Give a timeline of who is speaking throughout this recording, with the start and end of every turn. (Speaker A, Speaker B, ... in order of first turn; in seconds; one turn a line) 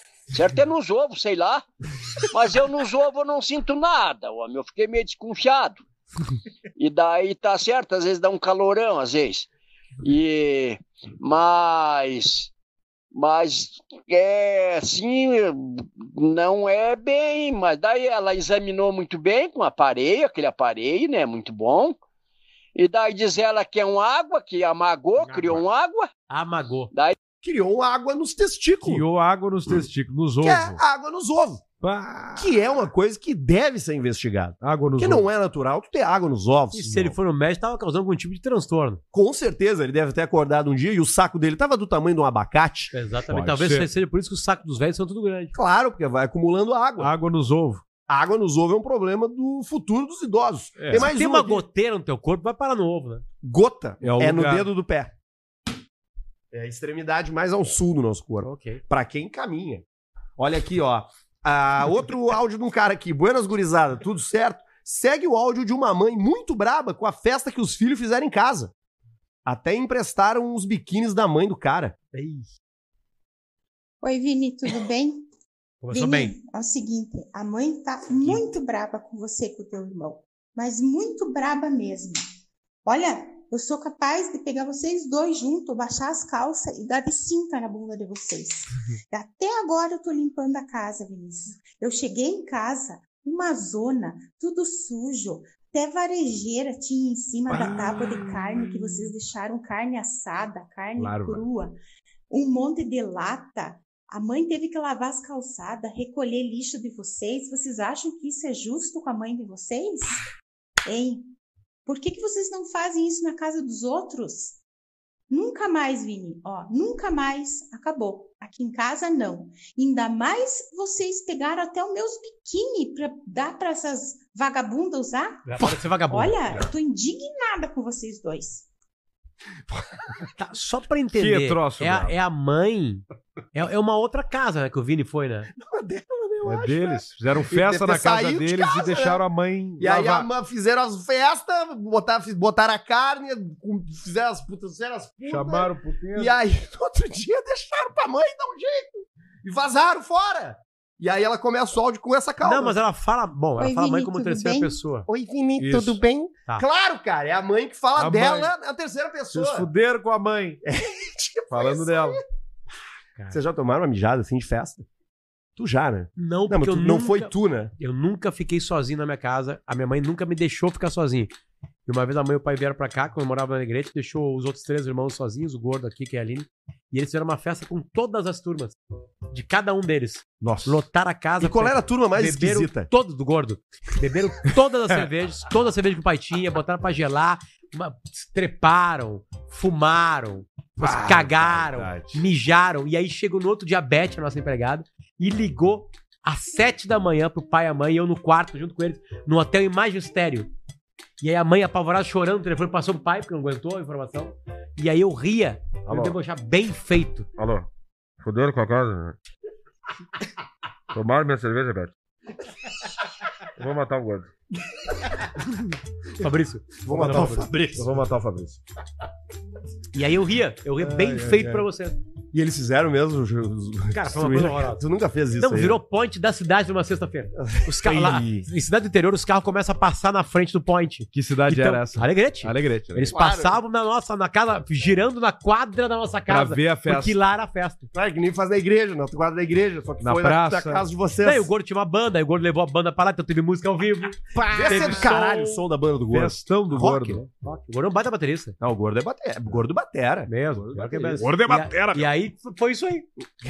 Speaker A: 0.3-1.6
Speaker A: 2.3-5.8
Speaker A: 6.8-9.5
Speaker A: 10.0-12.5
Speaker A: 13.1-22.0
Speaker A: 22.7-26.1
Speaker B: 25.2-25.6
Speaker C: 26.3-26.9
Speaker D: 27.4-29.0
Speaker B: 28.8-30.8
Speaker D: 30.4-31.6
Speaker B: 31.8-32.5
Speaker D: 32.4-37.1
Speaker B: 34.6-35.3
Speaker C: 36.7-39.0
Speaker D: 39.1-42.9
Speaker C: 42.9-45.5
Speaker B: 43.3-43.9
Speaker D: 45.5-47.1
Speaker B: 47.0-47.8
Speaker D: 48.1-51.6
Speaker B: 50.8-51.1
Speaker C: 50.9-53.2
Speaker D: 53.4-55.1
Speaker B: 54.0-54.7
Speaker D: 56.5-59.8
Speaker C: 58.4-58.8
Speaker D: 60.4-68.7
Speaker D: 69.5-71.9
Speaker C: 72.1-72.5
Speaker E: 74.0-75.2
Speaker C: 75.8-76.3
Speaker E: 75.9-82.2
Speaker E: 82.8-101.8
Speaker B: 97.5-98.1
Speaker B: 101.0-101.4
Speaker E: 102.3-110.3
Speaker E: 110.8-111.2
Speaker E: 111.8-114.6
Speaker E: 115.3-128.7
Speaker C: 125.5-126.4
Speaker C: 130.3-135.5
Speaker B: 131.1-132.2
Speaker D: 135.5-139.2
Speaker B: 136.4-140.3
Speaker D: 139.8-152.8
Speaker B: 145.2-146.4
Speaker C: 152.4-155.1
Speaker E: 153.6-154.8
Speaker D: 155.1-159.7
Speaker B: 155.6-156.0
Speaker B: 157.9-158.5
Speaker B: 159.3-160.6
Speaker D: 160.6-162.2
Speaker B: 161.5-162.2
Speaker D: 163.3-164.8
Speaker D: 165.6-167.7
Speaker C: 166.2-171.3
Speaker C: 171.8-178.8
Speaker C: 179.3-200.5
Speaker B: 180.4-180.8
Speaker D: 181.4-182.9
Speaker B: 190.8-192.2
Speaker C: 201.2-207.3
Speaker B: 205.8-206.2
Speaker B: 207.4-207.7
Speaker B: 208.2-209.2
Speaker B: 210.9-211.9
Speaker B: 213.6-214.3
Speaker C: 216.2-217.5
Speaker D: 216.8-217.9
Speaker B: 217.7-218.6
Speaker C: 219.9-222.0
Speaker B: 220.8-221.6
Speaker D: 222.3-225.8
Speaker C: 223.9-224.8
Speaker C: 225.4-237.9
Speaker D: 227.4-227.7
Speaker B: 227.8-228.4
Speaker B: 231.1-233.1
Speaker D: 233.1-233.6
Speaker B: 236.3-237.2
Speaker D: 237.9-241.5
Speaker B: 240.0-240.9
Speaker C: 241.2-245.6
Speaker B: 244.3-245.3
Speaker D: 244.3-247.2
Speaker B: 246.1-247.2
Speaker C: 247.3-248.6
Speaker D: 248.6-250.3
Speaker C: 250.3-253.1
Speaker B: 250.6-252.1